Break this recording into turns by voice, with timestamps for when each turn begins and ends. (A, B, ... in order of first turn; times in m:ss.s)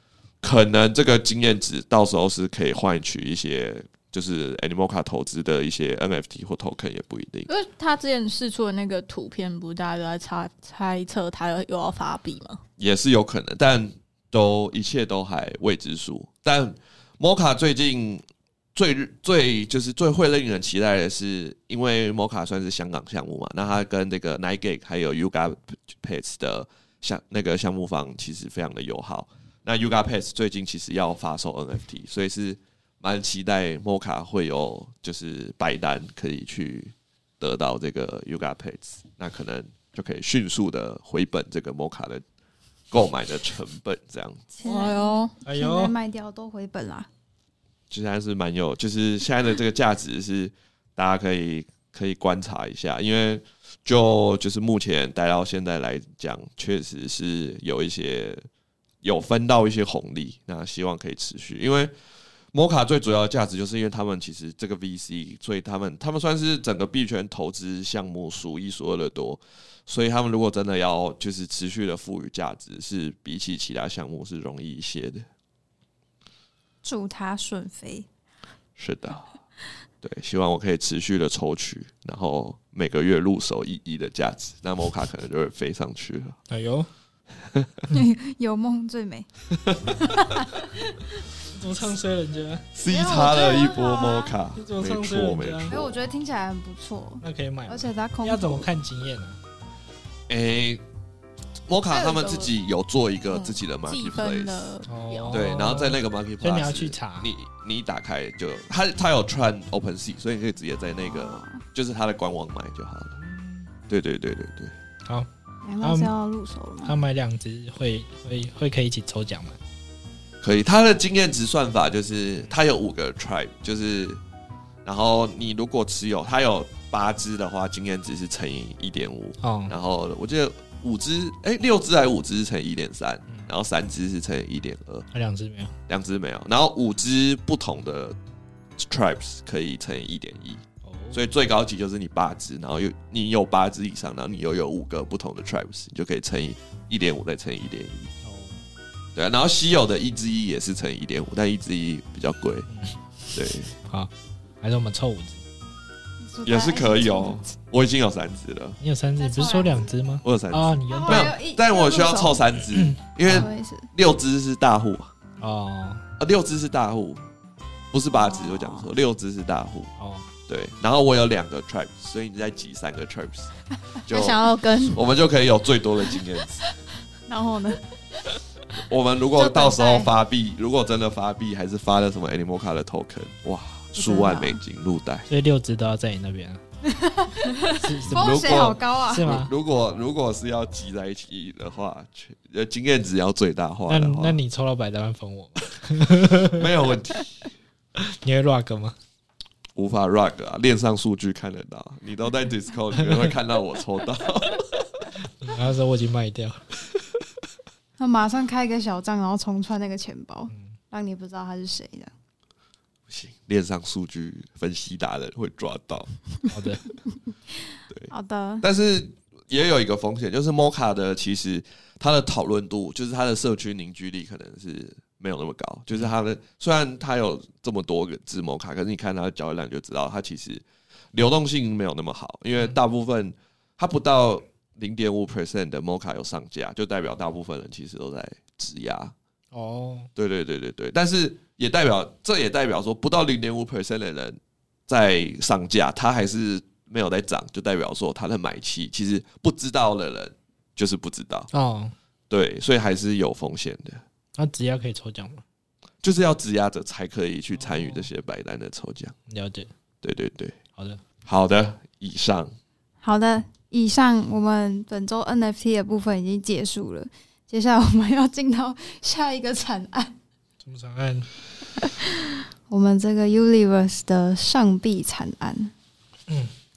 0:00.4-0:07.5 A
0:07.5-0:12.6 B
0:12.8-0:18.2 A
0:18.7-0:42.2 A
0:42.9-0:44.4 A
0:44.5-0:47.1 C
0:44.6-0:45.3 B
0:45.4-0:45.9 D
0:47.9-0:58.4 A
0:59.0-1:01.9 A
1:02.5-1:15.2 A
1:16.8-1:18.1 C
1:18.8-1:19.3 A
1:20.0-1:26.4 A
1:26.5-1:26.9 D
1:27.9-1:29.3 C
1:29.5-1:30.0 A
1:30.0-1:30.4 C
1:31.4-1:32.6 D
1:32.7-1:36.0 A
1:32.8-1:34.3 C
1:34.6-1:35.7 D
1:35.7-1:38.7 C
1:37.2-1:39.4 D
1:40.3-1:40.8 A
1:41.7-1:44.7 A
1:41.9-1:42.5 C
1:43.4-1:45.4 B
1:44.9-1:47.3 D
1:45.3-1:53.2 A
1:51.0-1:51.6 C
1:53.2-1:53.7 D
1:53.9-1:54.7 A
1:55.6-1:57.0 C
1:55.8-1:56.1 D
1:56.8-1:59.6 D
2:00.4-2:04.2 A
2:04.8-2:15.1 A
2:09.4-2:09.7 D
2:15.1-2:15.7 D
2:15.9-2:18.2 A
2:18.8-2:28.1 A
2:20.8-2:21.2 D
2:28.2-2:28.6 D
2:29.1-2:32.7 A
2:32.7-2:32.9 D
2:33.3-2:33.8 A
2:34.6-2:35.4 D
2:36.2-2:37.4 C
2:36.4-2:38.8 A
2:38.8-2:41.3 D
2:39.2-2:39.9 C
2:40.2-2:45.1 A
2:40.9-2:42.5 C
2:42.7-2:43.5 D
2:43.2-2:43.9 C
2:45.4-2:46.0 D
2:46.2-2:47.2 A
2:47.9-2:49.9 A
2:48.1-2:48.9 C
2:50.0-2:50.3 D
2:50.5-2:53.5 A
2:54.0-2:56.7 A
2:54.1-2:55.0 B
2:57.3-2:57.8 C
2:58.7-3:05.3 A
2:59.3-3:00.1 C
3:03.9-3:04.6 C
3:05.3-3:06.6 D
3:06.8-3:09.3 C
3:07.7-3:09.5 D
3:08.0-3:14.4 A
3:13.9-3:16.7 D
3:16.4-3:17.5 A
3:18.0-3:18.9 D
3:19.8-3:25.0 A
3:25.4-3:26.6 D
3:28.0-3:32.1 C
3:33.1-3:36.1 A
3:36.5-3:36.8 D
3:37.9-3:59.1 A
3:38.1-3:38.6 C
3:59.5-4:00.1 D
4:00.2-4:11.5 A
4:11.5-4:11.9 D
4:12.3-4:14.0 A
4:14.4-4:15.4 D
4:16.0-4:19.1 A
4:17.6-4:18.1 D
4:19.3-4:19.7 D
4:20.0-4:20.6 A
4:21.2-4:22.5 A
4:23.0-4:30.1 C
4:30.6-4:31.3 D
4:31.8-4:35.7 C
4:36.3-4:36.5 D